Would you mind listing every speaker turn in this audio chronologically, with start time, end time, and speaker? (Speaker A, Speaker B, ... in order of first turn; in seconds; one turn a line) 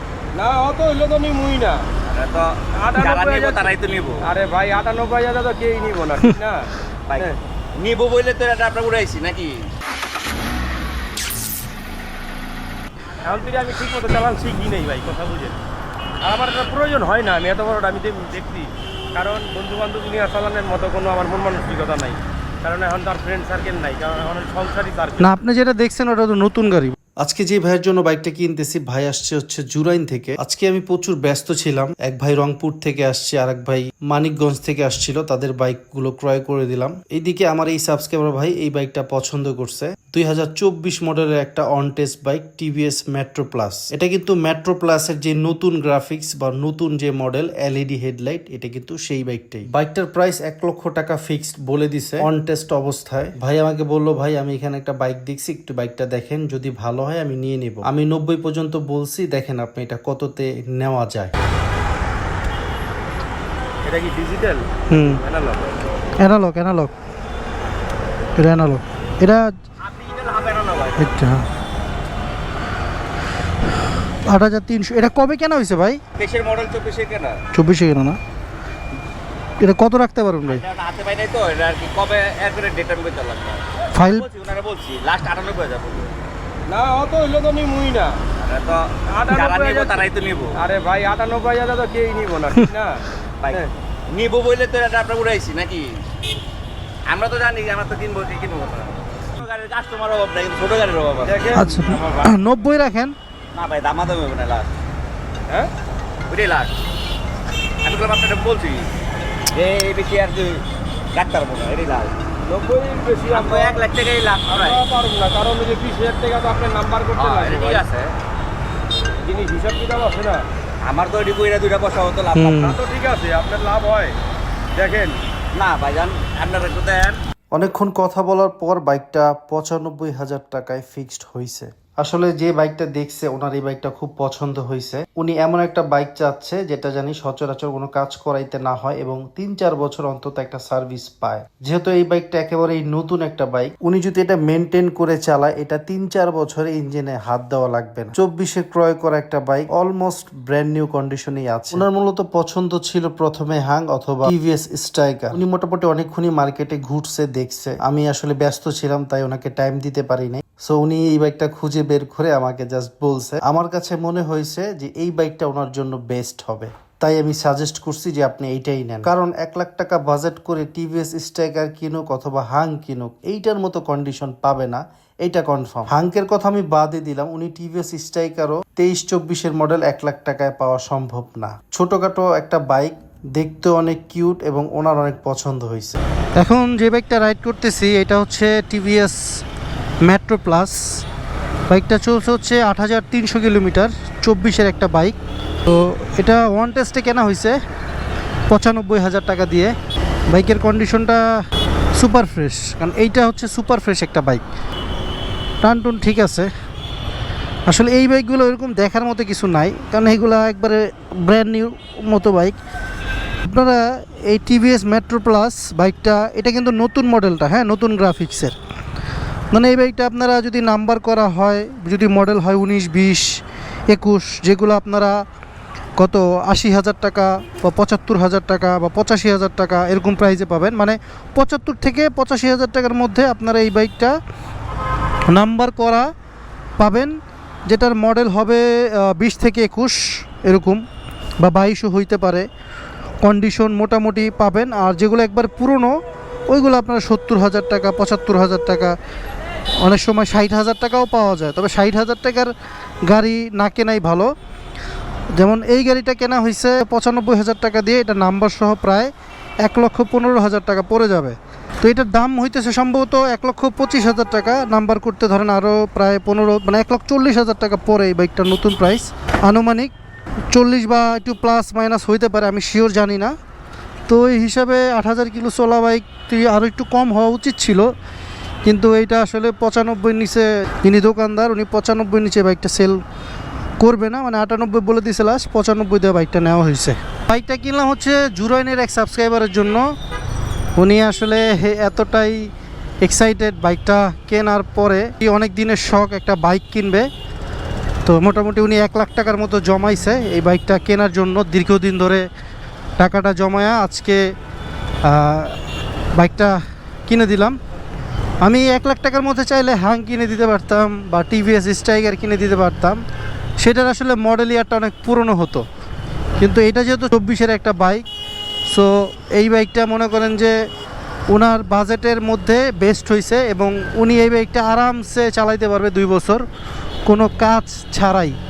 Speaker A: 0.3-1.8
Speaker B: 2.0-4.2
Speaker A: 2.7-3.7
Speaker A: 4.2-6.7
Speaker B: 7.1-9.5
Speaker A: 13.2-15.6
Speaker A: 16.2-25.3
Speaker C: 25.2-26.9
Speaker D: 27.2-61.3
Speaker A: 63.8-65.7
Speaker C: 64.9-65.2
Speaker C: 66.2-66.9
Speaker C: 68.4-69.5
Speaker B: 69.8-71.2
Speaker C: 71.0-71.5
Speaker C: 74.2-76.0
Speaker B: 76.2-77.3
Speaker C: 77.5-78.2
Speaker C: 79.6-80.6
Speaker B: 80.5-86.1
Speaker C: 83.9-84.2
Speaker A: 86.7-88.2
Speaker B: 88.4-90.6
Speaker A: 89.1-90.0
Speaker A: 90.6-93.0
Speaker B: 93.4-95.9
Speaker B: 97.1-101.4
Speaker A: 101.2-102.3
Speaker C: 101.5-103.1
Speaker B: 103.5-104.7
Speaker B: 106.3-106.7
Speaker B: 107.8-108.9
Speaker B: 109.5-110.6
Speaker B: 111.1-112.2
Speaker A: 112.5-113.8
Speaker B: 113.3-114.8
Speaker A: 114.5-117.8
Speaker B: 117.2-118.1
Speaker A: 119.2-120.4
Speaker B: 120.8-122.7
Speaker C: 122.3-122.8
Speaker A: 122.5-124.2
Speaker A: 124.7-125.2
Speaker B: 125.5-127.2
Speaker D: 127.5-186.0
Speaker C: 186.4-189.2
Speaker C: 190.1-190.8
Speaker C: 191.7-197.6
Speaker C: 198.5-199.7
Speaker C: 200.3-201.2
Speaker C: 202.0-204.4
Speaker C: 205.6-206.5
Speaker C: 207.7-212.6
Speaker C: 213.5-218.6
Speaker C: 219.5-225.2
Speaker C: 226.0-234.1
Speaker C: 235.3-236.1
Speaker C: 236.8-237.1
Speaker C: 237.7-240.8
Speaker C: 241.4-242.4
Speaker C: 243.2-245.9
Speaker C: 246.5-248.9
Speaker C: 249.8-252.5
Speaker C: 253.1-254.3
Speaker C: 255.3-259.1
Speaker C: 259.6-269.9
Speaker C: 270.5-273.3
Speaker C: 274.1-277.9
Speaker C: 278.6-283.0
Speaker C: 283.8-289.8
Speaker C: 290.8-292.5
Speaker C: 293.0-297.1
Speaker C: 298.0-302.2
Speaker C: 303.0-304.2
Speaker C: 305.0-305.6
Speaker C: 306.2-307.6
Speaker C: 308.4-313.0
Speaker C: 313.6-315.6
Speaker C: 316.4-318.0
Speaker C: 318.7-320.5
Speaker C: 321.3-326.4
Speaker C: 327.1-328.4